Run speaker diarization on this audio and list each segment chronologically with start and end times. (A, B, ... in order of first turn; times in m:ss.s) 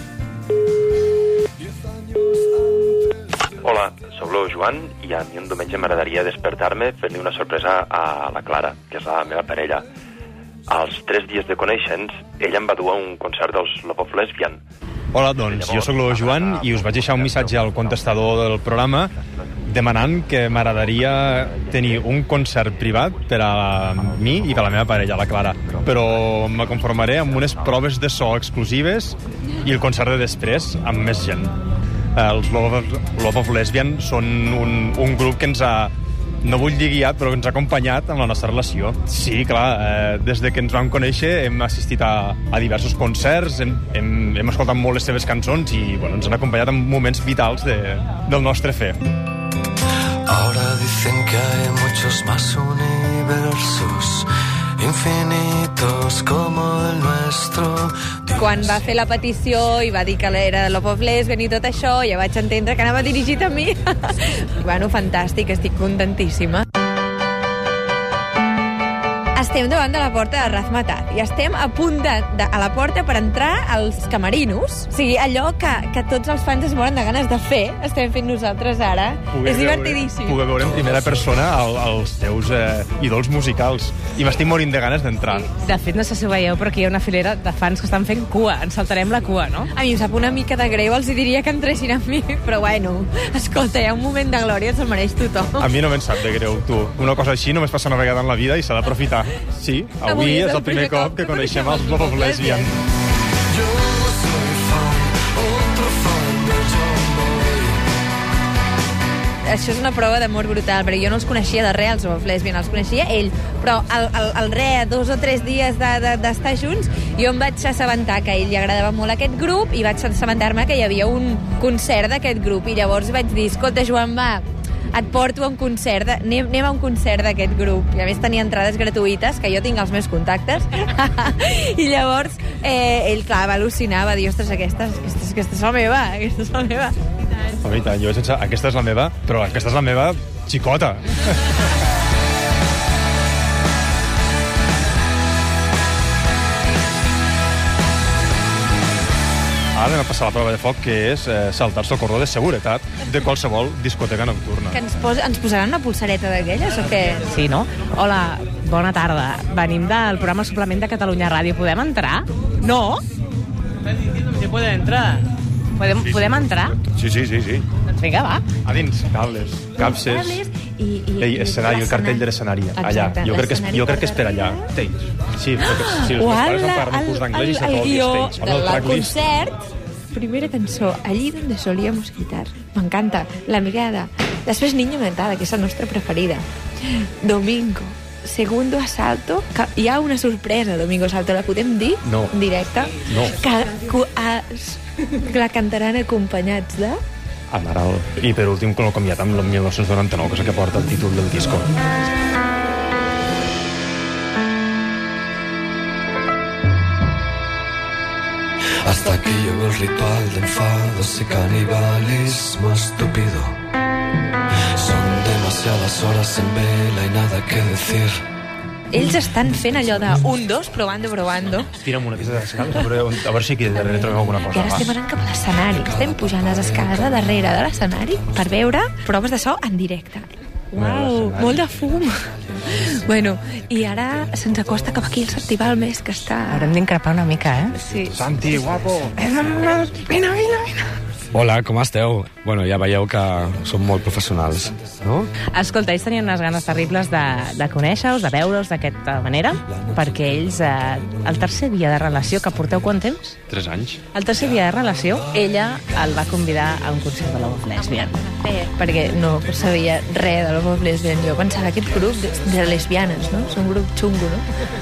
0:03.6-0:09.8 A
0:10.7-0:14.6 A
0:15.1-0:19.1 B
0:15.4-0:18.2 A
0:19.7-0:31.5 B
0:32.2-0:35.9 B
0:36.4-0:49.0 B
0:50.3-0:58.2 C
0:58.3-1:06.7 D
1:09.4-1:20.4 D
1:19.3-1:25.5 B
1:25.3-1:29.7 E
1:29.7-1:35.7 D
1:35.6-1:42.8 B
1:40.0-1:42.8 D
1:43.5-1:47.8 C
1:49.4-2:17.0 D
2:17.6-2:21.5 B
2:29.8-2:34.8 B
2:34.7-2:37.3 D
2:37.3-2:43.0 E
2:44.4-2:45.2 E
2:45.8-2:46.8 E
2:47.0-2:47.6 B
2:47.2-2:47.5 F
2:47.9-2:48.4 E
2:48.6-2:50.4 B
2:49.8-2:54.7 D
2:51.2-2:59.2 B
2:55.6-2:59.6 D
3:00.1-3:06.4 D
3:07.0-3:17.0 D
3:12.1-3:12.3 B
3:13.0-3:13.4 B
3:17.5-3:21.7 B
3:28.8-3:33.6 C
3:34.8-3:38.2 C
3:38.9-3:41.7 D
3:41.8-3:44.9 B
3:44.5-3:56.8 D
3:50.8-3:51.6 B
3:56.5-3:57.8 E
3:57.9-3:58.1 D
3:58.1-3:59.2 B
3:59.3-4:00.8 E
4:01.3-4:05.3 F
4:05.5-4:13.4 E
4:13.5-4:14.0 B
4:14.1-4:18.3 E
4:18.0-4:24.4 D